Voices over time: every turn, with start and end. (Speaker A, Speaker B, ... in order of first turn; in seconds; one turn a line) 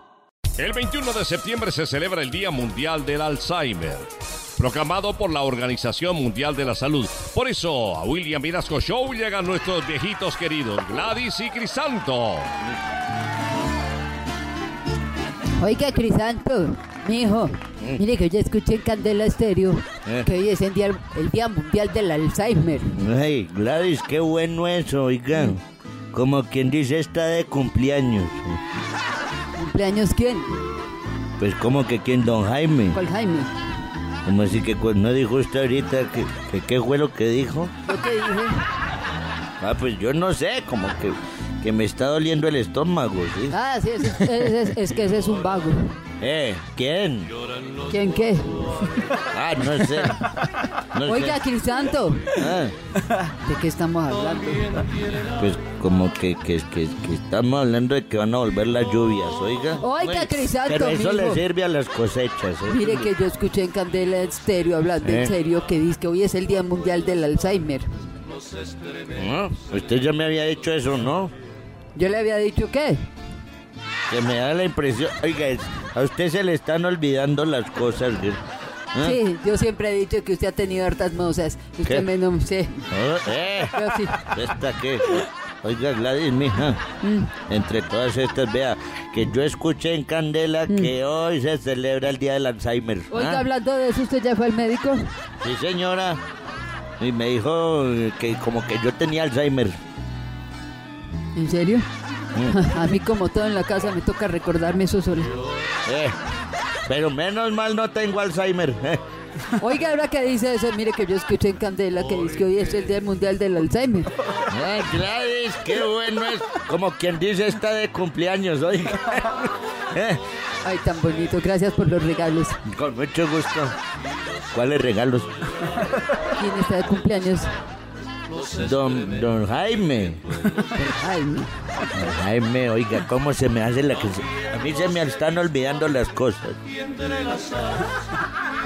Speaker A: 0.6-12.5
Speaker B: 15.6-22.9
Speaker C: 23.0-25.6
Speaker C: 26.1-28.6
Speaker B: 29.6-30.6
Speaker C: 31.4-33.0
Speaker B: 32.9-33.5
Speaker C: 34.2-37.7
Speaker B: 37.9-38.6
Speaker C: 39.6-43.5
Speaker B: 43.5-45.9
Speaker C: 46.2-47.3
Speaker B: 47.9-48.6
Speaker C: 49.3-50.3
Speaker C: 50.9-51.4
Speaker B: 51.1-52.4
Speaker C: 52.3-52.8
Speaker B: 53.3-54.9
Speaker C: 55.3-63.1
Speaker B: 59.8-61.4
Speaker B: 62.7-67.9
Speaker C: 65.0-65.3
Speaker C: 69.1-71.3
Speaker B: 72.0-73.0
Speaker C: 74.1-78.4
Speaker B: 79.0-82.9
Speaker C: 82.9-86.8
Speaker B: 83.7-84.2
Speaker B: 87.0-87.3
Speaker C: 87.5-93.5
Speaker B: 93.1-95.1
Speaker C: 95.4-96.2
Speaker C: 97.0-99.8
Speaker B: 101.3-101.9
Speaker B: 102.5-105.4
Speaker C: 105.8-106.2
Speaker C: 106.9-109.0
Speaker B: 109.6-114.1
Speaker C: 114.5-120.2
Speaker B: 120.6-122.6
Speaker C: 122.7-123.8
Speaker C: 124.5-125.3
Speaker B: 126.3-127.5
Speaker C: 128.5-130.2
Speaker B: 130.6-131.5
Speaker C: 131.9-136.6